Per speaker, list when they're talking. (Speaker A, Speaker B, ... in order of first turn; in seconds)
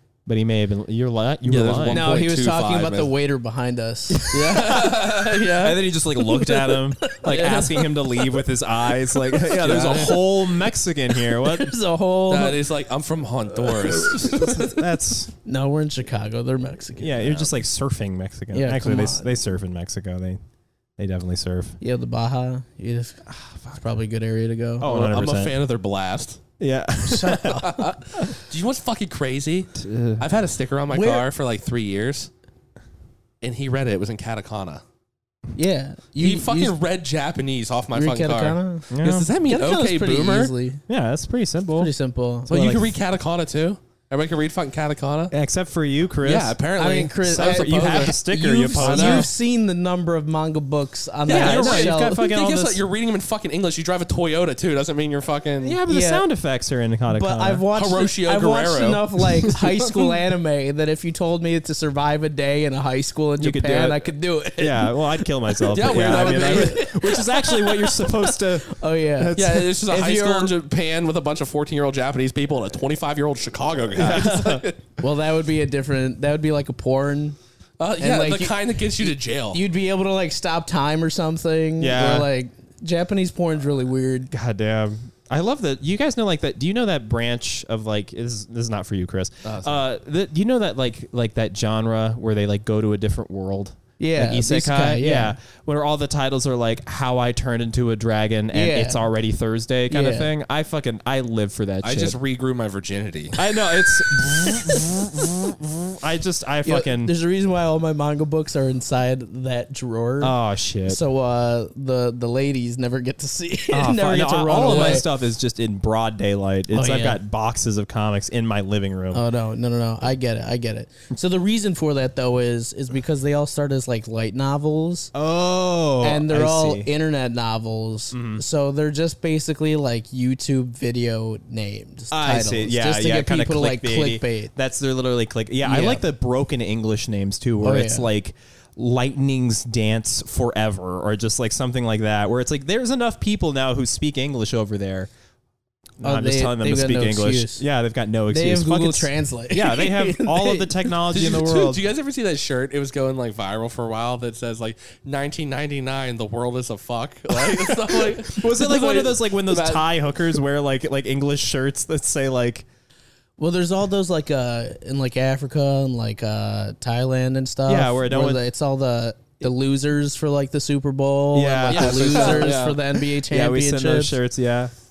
Speaker A: 0.2-2.1, 4.1-11.8, 14.1-15.3, 16.9-20.4, 21.0-21.8, 23.3-23.8, 24.8-25.6, 26.6-28.3, 29.8-30.2, 38.9-39.3, 40.9-41.9, 45.3-46.6, 47.2-49.3, 51.3-52.8, 55.6-57.6, 63.4-69.7, 74.0-74.6, 81.8-82.3, 84.3-102.2, 103.3-107.1, 110.2-111.0, 113.7-119.2, 125.1-126.9, 128.1-128.4, 132.1-145.1, 146.0-151.8, 157.7-162.7, 167.7-168.4, 171.3-174.7
Speaker B: 1.4-3.1, 4.3-5.8, 7.2-7.7, 9.6-10.2, 12.3-14.7, 24.8-26.4, 27.6-32.3, 33.4-34.8, 36.2-40.5, 42.5-45.3, 46.2-48.2, 48.7-49.3, 51.3-55.8, 57.7-60.2, 65.7-67.0, 69.3-74.8, 77.8-79.6, 89.4-89.8, 101.8-103.4, 114.7-115.0, 151.1-159.9, 171.7-172.8
Speaker C: 1.9-4.8, 6.2-8.2, 9.2-10.2, 11.1-12.6, 13.7-14.8, 15.4-17.4, 18.5-19.4, 21.8-24.9, 27.0-27.9, 30.9-31.2, 35.5-36.8, 37.9-38.9, 39.4-40.8, 41.8-42.8, 46.8-52.2, 55.9-56.2, 57.1-65.0, 66.0-70.5, 75.0-77.4, 78.0-84.3, 94.0-95.3, 98.5-99.0, 99.9-100.3, 106.6-110.3, 110.8-115.0, 116.7-117.2, 119.1-125.1, 126.0-134.5, 135.6-136.0, 137.6-138.1, 146.0-147.6, 148.3-150.9, 163.4-174.2